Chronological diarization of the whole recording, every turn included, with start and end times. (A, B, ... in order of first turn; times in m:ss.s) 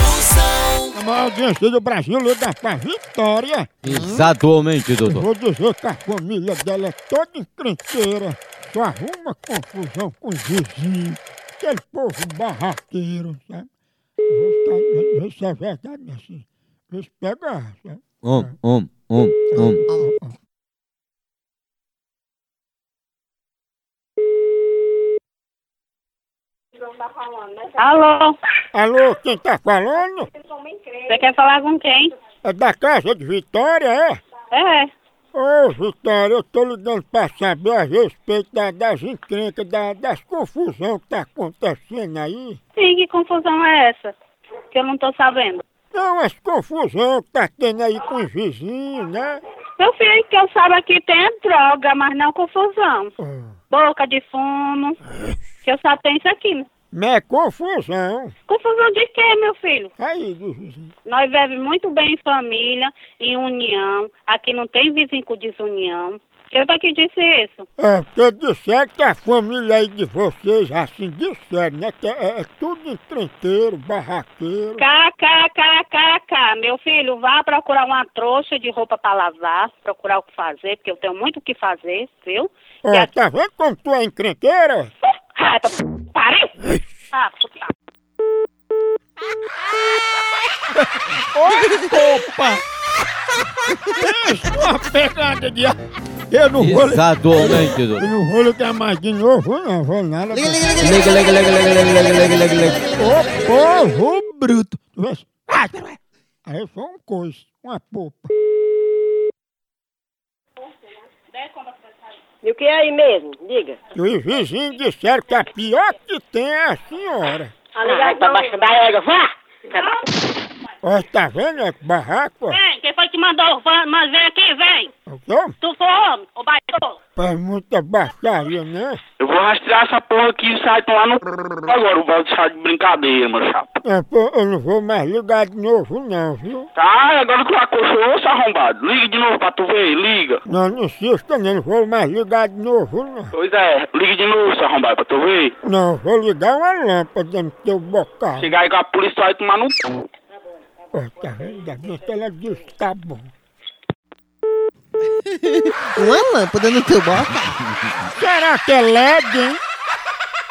0:00.9-0:03.7 A
0:03.8-0:05.2 B
0:03.9-0:04.2 C
0:05.0-0:13.7 A
0:14.3-0:18.5 A
0:18.2-0:19.8 B
0:19.5-0:20.3 A
0:27.6-0:28.4 D
0:28.7-0:30.3 A
0:31.0-0:32.1 D
0:32.4-0:34.2 A
0:34.5-0:34.9 D
0:35.3-0:42.6 A
0:42.8-0:44.1 D
0:44.7-0:45.6 D
0:45.9-0:49.4 A
0:49.8-0:53.1 D
0:53.2-0:53.5 A
0:53.7-0:55.0 D
0:55.6-0:56.6 D
0:56.9-0:58.3 A
0:58.5-0:59.9 D
1:00.0-1:00.9 A
1:01.0-1:07.6 D
1:07.8-1:14.8 A
1:14.8-1:23.1 D
1:22.8-1:24.9 A
1:25.4-1:26.5 D
1:27.1-1:27.7 D
1:30.8-1:32.6 A
1:33.8-1:35.8 A
1:36.3-1:40.7 A
1:36.6-1:38.0 B
1:40.6-1:40.9 C
1:40.7-1:42.9 B
1:42.9-1:48.3 A
1:52.4-1:53.8 E
1:53.9-1:57.5 A
1:57.8-1:59.2 E
2:00.8-2:02.6 A
2:02.5-2:04.9 D
2:05.1-2:05.6 A
2:05.6-2:06.9 D
2:07.2-2:09.0 A
2:09.2-2:13.6 F
2:13.8-2:16.7 A
2:16.8-2:20.4 F
2:20.4-2:23.3 A
2:23.3-2:25.5 F
2:25.6-2:28.5 A
2:28.4-2:29.8 F
2:30.9-2:33.3 A
2:35.5-2:37.6 C
2:38.1-2:39.6 A